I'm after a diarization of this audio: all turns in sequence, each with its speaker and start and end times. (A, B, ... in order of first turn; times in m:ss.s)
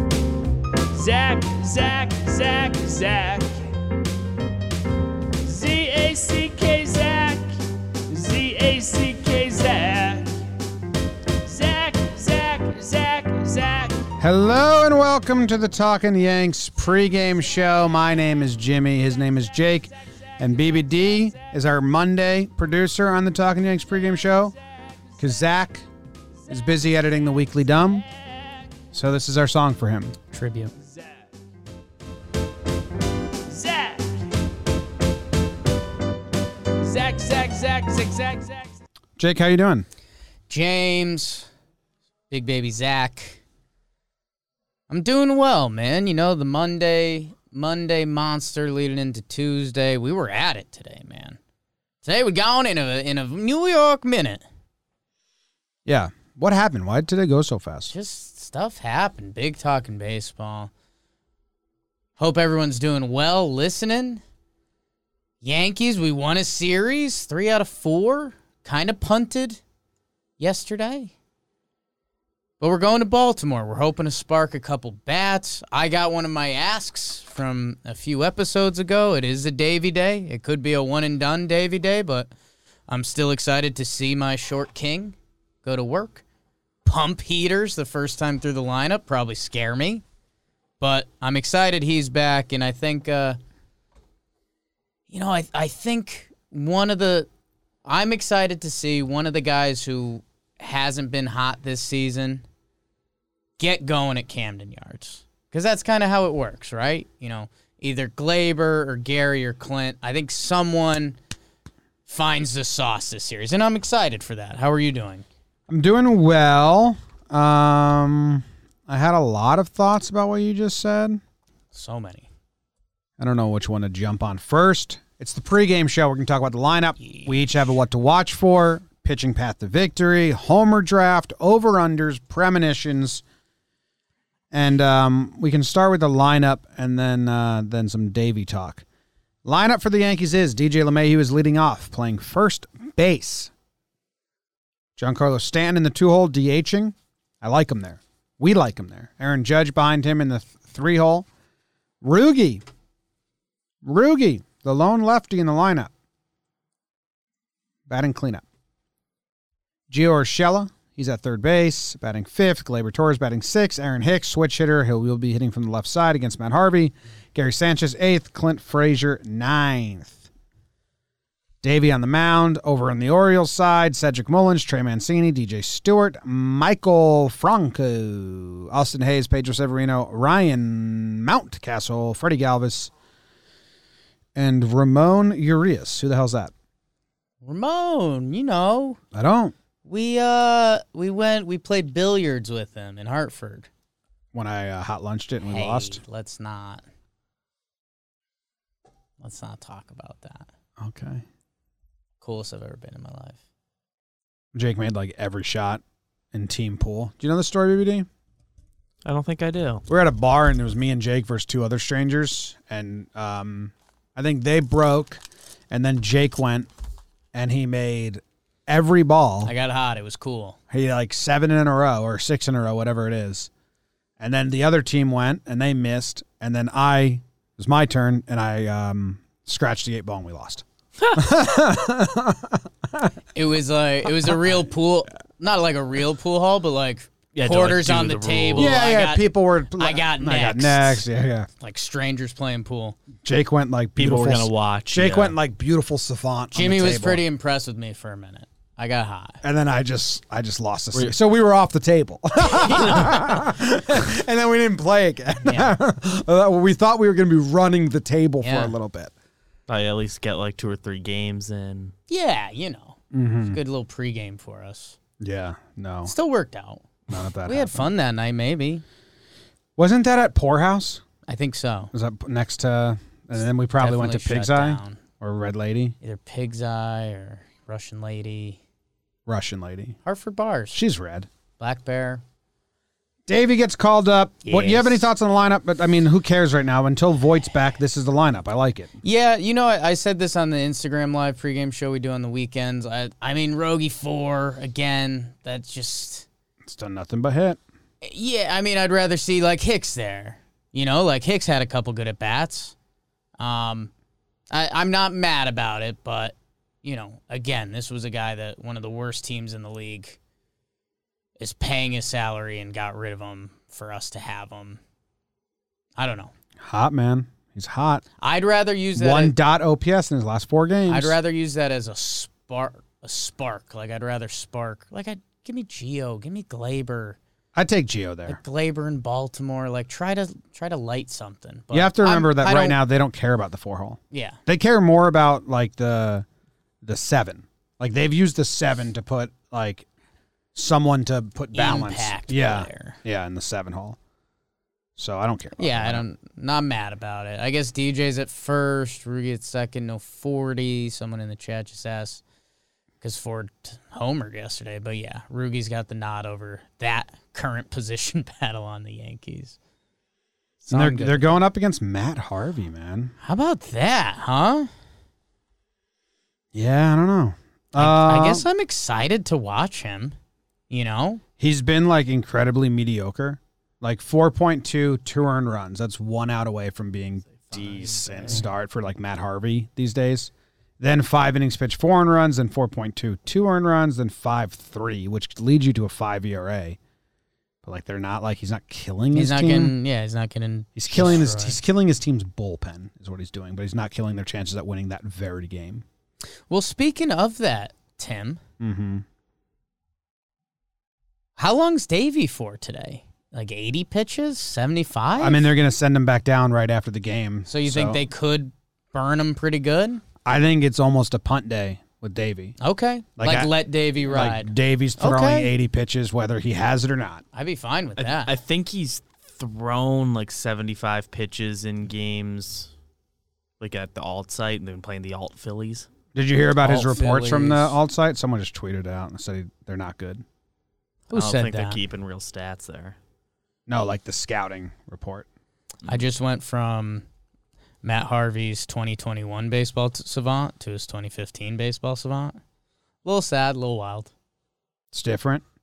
0:00.9-0:03.7 A
0:05.4-0:07.5 A
0:08.1-0:10.3 A
0:11.4-0:14.0 A
0:14.2-0:24.6 B
0:25.2-0:25.9 B
0:26.5-0:28.1 B
0:28.9-0:30.2 B
0:30.3-0:30.7 C
0:33.5-0:34.2 A
0:36.8-0:38.7 A
0:39.2-0:39.8 B
0:40.5-0:41.5 C
0:42.3-0:43.4 C
0:44.9-0:51.4 C
0:52.0-0:54.4 C
0:55.9-0:57.9 B
0:57.9-1:00.7 C
1:02.2-1:04.2 C
1:05.4-1:09.6 C
1:10.4-1:11.1 C
1:12.6-1:22.3 C
1:22.9-1:26.2 C
1:26.8-1:30.0 C
1:30.8-1:33.4 C
1:35.1-1:37.3 C
1:37.8-1:42.4 C
1:43.6-1:51.2 C
1:52.1-1:55.2 C
1:55.7-2:01.2 B
2:01.7-2:02.3 C
2:03.2-2:13.2 B
2:07.0-2:07.4 C
2:14.5-2:18.8 B
2:19.4-2:23.5 B
2:25.0-2:31.3 B
2:32.0-2:32.6 B
2:33.8-2:35.9 B
2:37.9-2:38.4 B
2:39.9-2:50.3 B
2:51.6-3:02.9 B
3:04.4-3:06.5 B
3:07.4-3:09.0 C
3:09.1-3:09.6 B
3:09.8-3:13.7 C
3:14.3-3:16.0 B
3:15.4-3:16.8 C
3:19.2-3:20.5 C
3:20.8-3:21.2 B
3:22.2-3:23.4 C
3:24.5-3:28.1 B
3:29.0-3:29.8 D
3:29.9-3:36.7 B
3:37.3-3:39.5 B
3:39.4-3:40.6 C
3:40.7-3:43.5 B
3:44.2-3:53.1 B
3:53.3-4:01.1 C
3:57.4-3:58.7 D
3:58.6-4:01.5 B
4:01.6-4:03.0 C
4:03.2-4:07.2 B
4:04.0-4:05.4 D
4:06.6-4:09.4 C
4:09.4-4:19.1 B
4:12.8-4:13.1 C
4:15.4-4:15.8 C
4:18.4-4:18.8 C
4:19.7-4:21.9 D
4:22.1-4:25.0 C
4:23.1-4:23.6 B
4:25.2-4:26.1 B
4:26.0-4:26.9 C
4:27.1-4:27.9 B
4:27.4-4:28.8 C
4:29.8-4:31.0 B
4:31.3-4:31.9 C
4:31.9-4:36.0 B
4:33.8-4:35.0 C
4:36.0-4:38.6 C
4:39.3-4:40.0 B
4:40.0-4:40.8 C
4:40.7-4:41.3 B
4:41.6-4:42.2 C
4:43.3-4:48.9 B
4:44.4-4:45.1 C
4:49.0-4:56.3 C
4:56.6-4:57.6 B
4:58.0-5:02.8 C
5:03.4-5:03.9 C
5:04.5-5:10.2 C
5:11.4-5:14.8 C
5:16.0-5:16.3 C
5:16.6-5:18.0 B
5:18.2-5:19.4 C
5:19.0-5:21.2 B
5:20.9-5:27.2 C
5:27.6-5:28.4 B
5:28.3-5:32.8 C
5:31.7-5:36.3 B
5:34.1-5:34.4 C
5:36.8-5:39.9 B
5:40.6-5:44.0 B
5:41.5-5:43.0 C
5:45.0-5:46.0 B
5:45.6-5:52.2 C
5:53.0-5:59.6 C
6:00.6-6:01.4 C
6:00.7-6:03.1 B
6:03.2-6:04.7 C
6:06.5-6:08.5 B
6:07.8-6:10.2 C
6:10.7-6:11.2 C
6:11.4-6:26.8 B
6:17.3-6:18.4 D
6:27.6-6:29.7 B
6:29.1-6:31.6 C
6:30.8-6:35.8 B
6:36.5-6:38.4 C
6:38.6-6:39.0 B
6:41.4-6:45.5 C
6:45.2-6:48.0 B
6:47.5-6:50.0 C
6:50.2-6:52.6 B
6:52.6-6:55.5 C
6:53.2-6:53.5 B
6:54.0-6:57.2 B
6:57.3-6:58.3 C
6:58.0-7:02.7 D
7:03.6-7:05.9 D
7:06.2-7:10.2 B
7:06.6-7:07.8 C
7:11.1-7:11.8 C
7:11.1-7:13.0 D
7:13.7-7:15.3 B
7:15.8-7:17.0 C
7:17.8-7:22.4 C
7:23.0-7:24.1 C
7:24.9-7:25.4 B